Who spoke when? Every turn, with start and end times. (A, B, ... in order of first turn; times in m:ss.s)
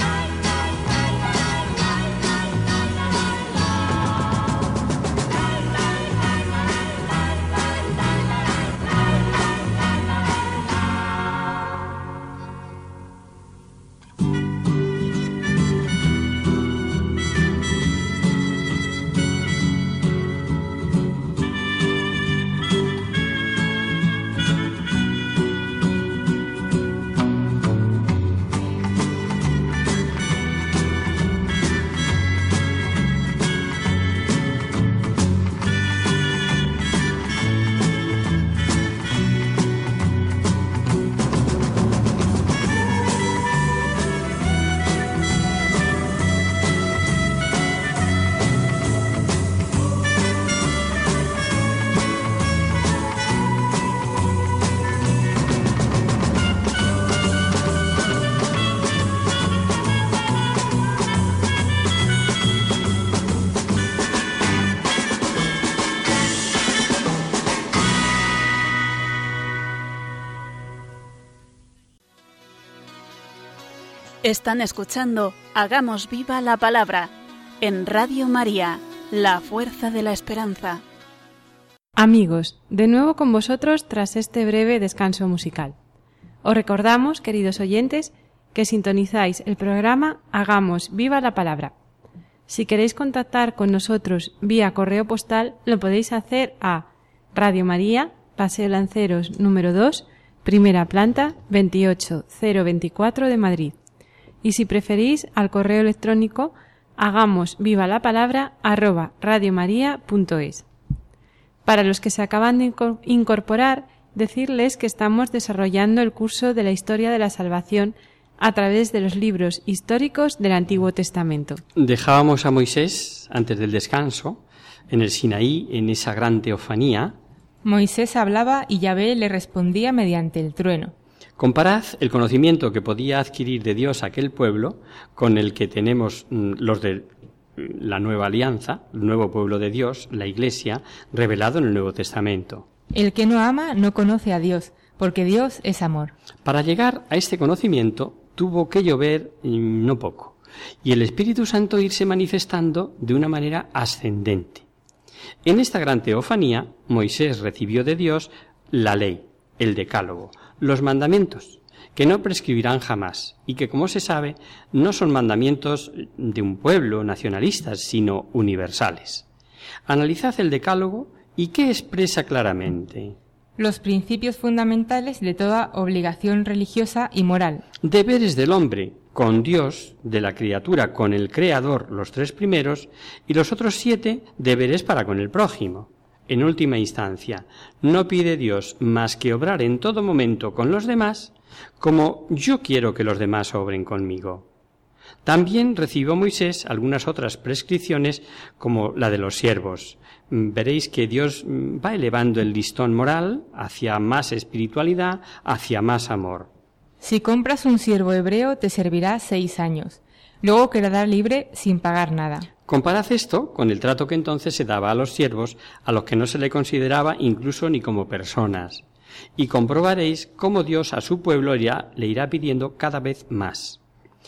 1:14.2-1:20.8 A
1:22.0-1:25.8 B
1:26.4-1:31.7 B
1:32.5-1:43.8 B
1:44.4-1:50.7 B
1:51.7-2:01.6 B
2:01.8-2:07.2 C
2:07.6-2:10.9 D
2:11.4-2:22.7 C
2:22.9-2:26.1 D
2:26.4-2:34.7 C
2:35.4-2:49.3 C
2:49.9-2:53.2 C
2:53.6-2:57.6 D
2:57.8-3:14.5 C
3:15.2-3:26.5 C
3:27.0-3:32.5 D
3:32.7-3:38.8 C
3:39.4-3:43.8 C